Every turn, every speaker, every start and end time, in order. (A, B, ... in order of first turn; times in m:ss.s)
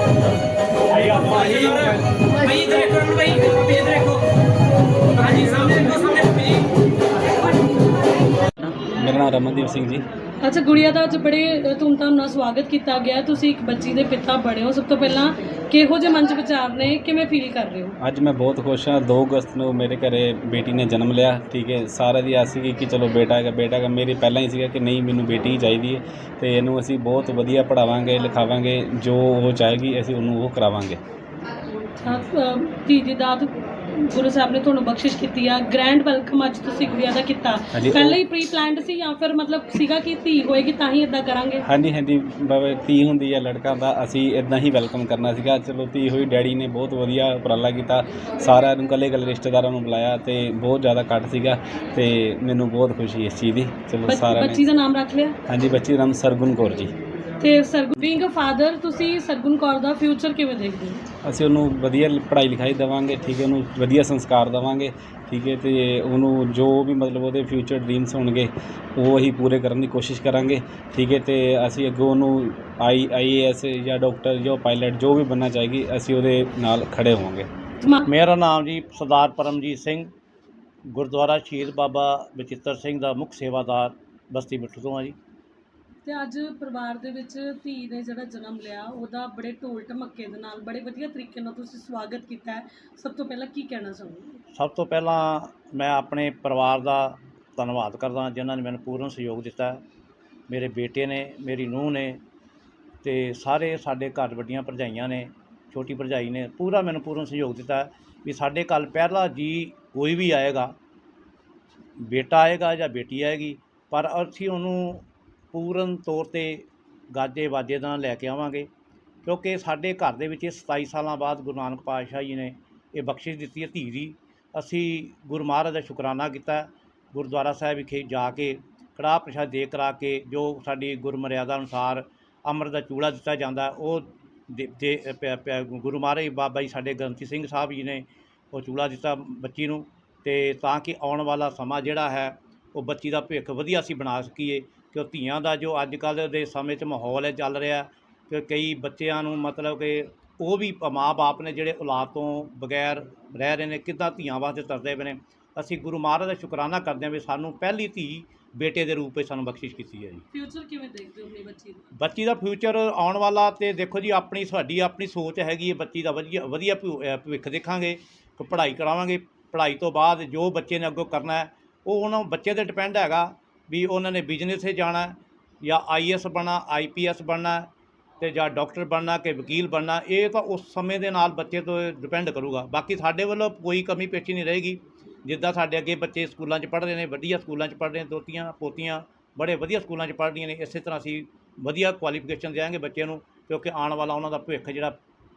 0:01.3-0:01.8 A
0:02.4-0:04.0 A
0:05.2-0:06.5 A
0:08.8-0:10.0 B
0:10.4-0:18.0 A
0:18.0-0:31.0 B
0:32.0-0:41.7 A
0:37.7-0:38.2 B
0:41.6-0:54.6 B
0:54.1-0:55.4 A
0:55.5-0:57.0 B
0:57.4-1:01.1 A
1:01.2-1:17.5 B
1:18.1-1:20.1 C
1:20.9-1:25.2 C
1:26.0-1:34.4 A
1:34.6-1:39.8 C
1:40.5-1:42.2 C
1:43.0-1:50.8 C
1:52.0-1:58.7 C
1:59.2-2:40.2 C
2:40.3-2:41.8 A
2:42.0-2:57.7 C
2:58.2-3:15.0 C